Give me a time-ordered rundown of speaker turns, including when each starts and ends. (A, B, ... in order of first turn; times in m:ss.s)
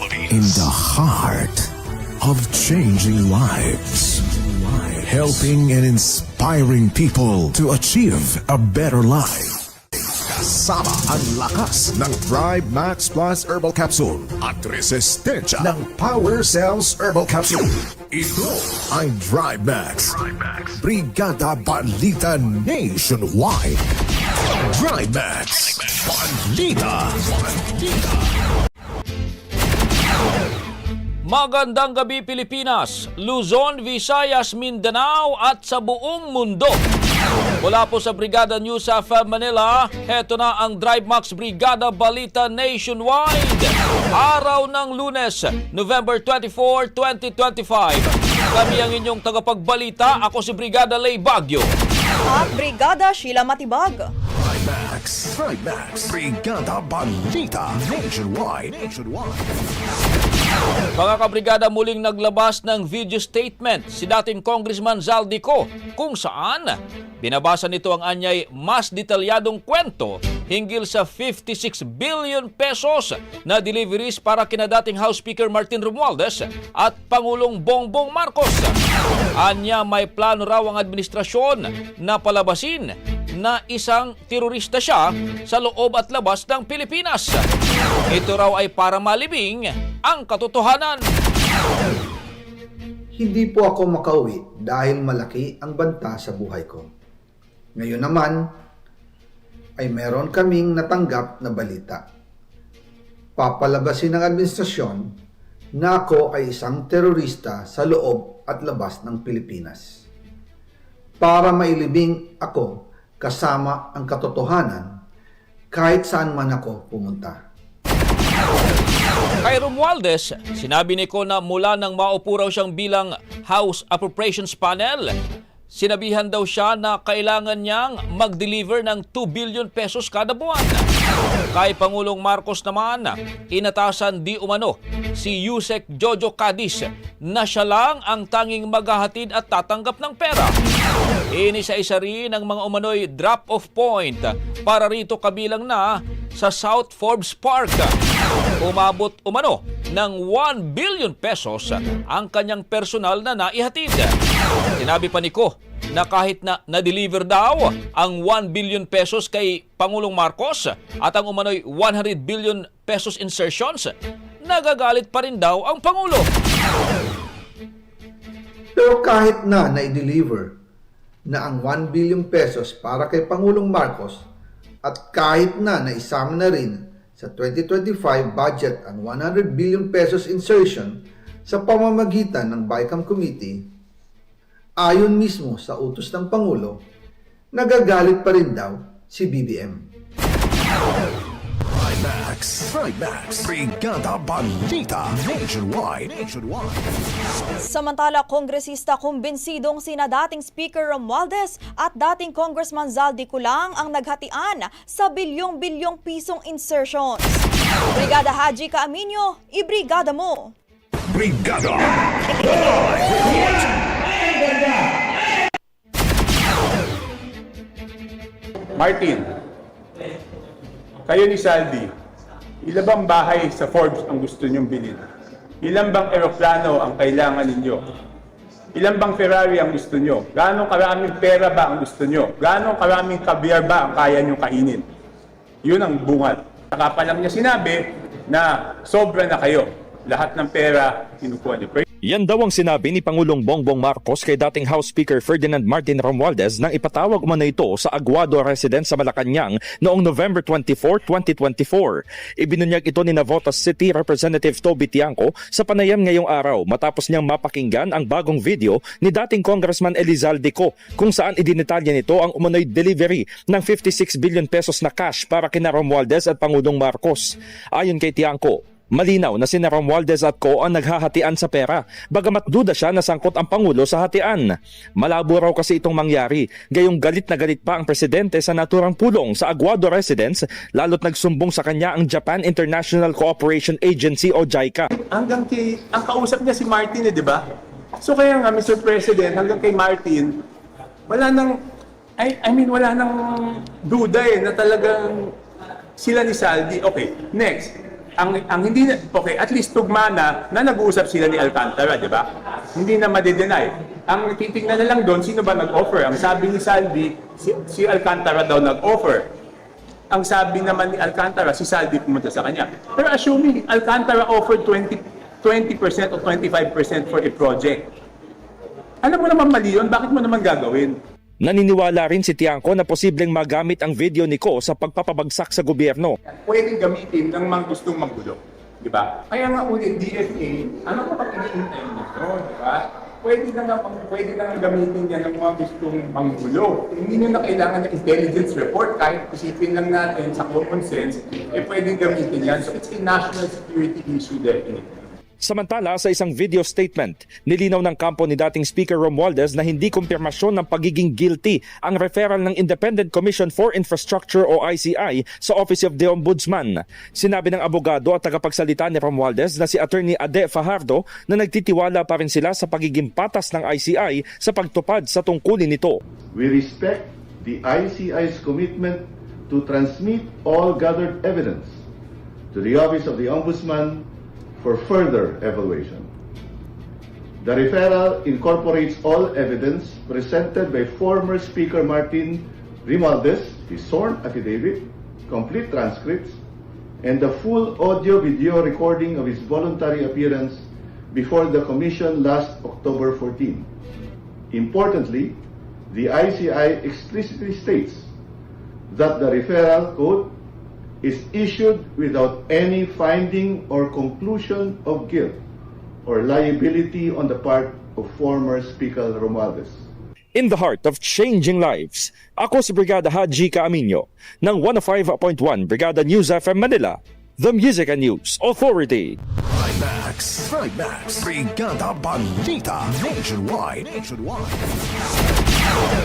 0:00.3-0:09.6 A
0:10.2-0:23.8 A
0:24.6-0:28.1 A
0:31.2-0:36.8 B
0:37.6-0:51.7 B
0:52.3-0:54.1 C
0:54.4-0:59.7 A
1:00.9-1:18.8 B
1:19.4-1:27.5 B
1:28.1-1:31.1 B
1:33.1-1:36.9 D
1:37.8-1:38.6 D
1:39.8-1:42.1 D
1:43.4-1:45.2 D
1:45.7-1:50.0 D
1:51.2-1:55.0 D
1:55.7-1:57.4 D
1:59.4-2:05.1 B
2:05.7-2:10.8 B
2:11.5-2:20.5 B
2:21.3-2:27.9 B
2:28.6-2:34.1 B
2:34.8-2:43.9 B
2:44.4-2:46.3 B
2:48.7-2:50.6 D
2:51.3-2:54.2 D
2:54.8-3:03.7 D
3:04.8-3:06.8 D
3:07.5-3:09.8 D
3:11.7-3:16.9 A
3:17.6-3:30.5 C
3:31.1-3:33.6 A
3:38.8-3:39.3 E
3:41.0-3:41.9 E
3:42.6-3:45.1 E
3:45.6-3:47.8 E
3:48.7-3:54.8 E
3:55.6-4:01.8 E
4:02.0-4:44.9 F
4:44.9-4:47.4 E
4:48.0-4:50.4 E
4:51.1-4:51.6 E
4:52.2-4:55.3 E
4:56.0-5:09.3 E
5:10.1-5:17.9 E
5:19.0-5:21.0 E
5:21.4-5:26.1 F
5:26.4-5:44.9 E
5:45.4-6:06.0 F
6:06.3-6:11.8 G
6:12.5-6:14.0 G
6:14.6-6:16.1 G
6:17.4-6:26.4 G
6:27.0-6:33.7 G
6:34.5-6:35.4 G
6:35.9-6:38.1 G
6:38.9-6:40.3 G
6:41.0-6:45.4 G
6:46.0-6:49.8 G
6:50.3-6:59.2 F
6:59.5-7:04.8 A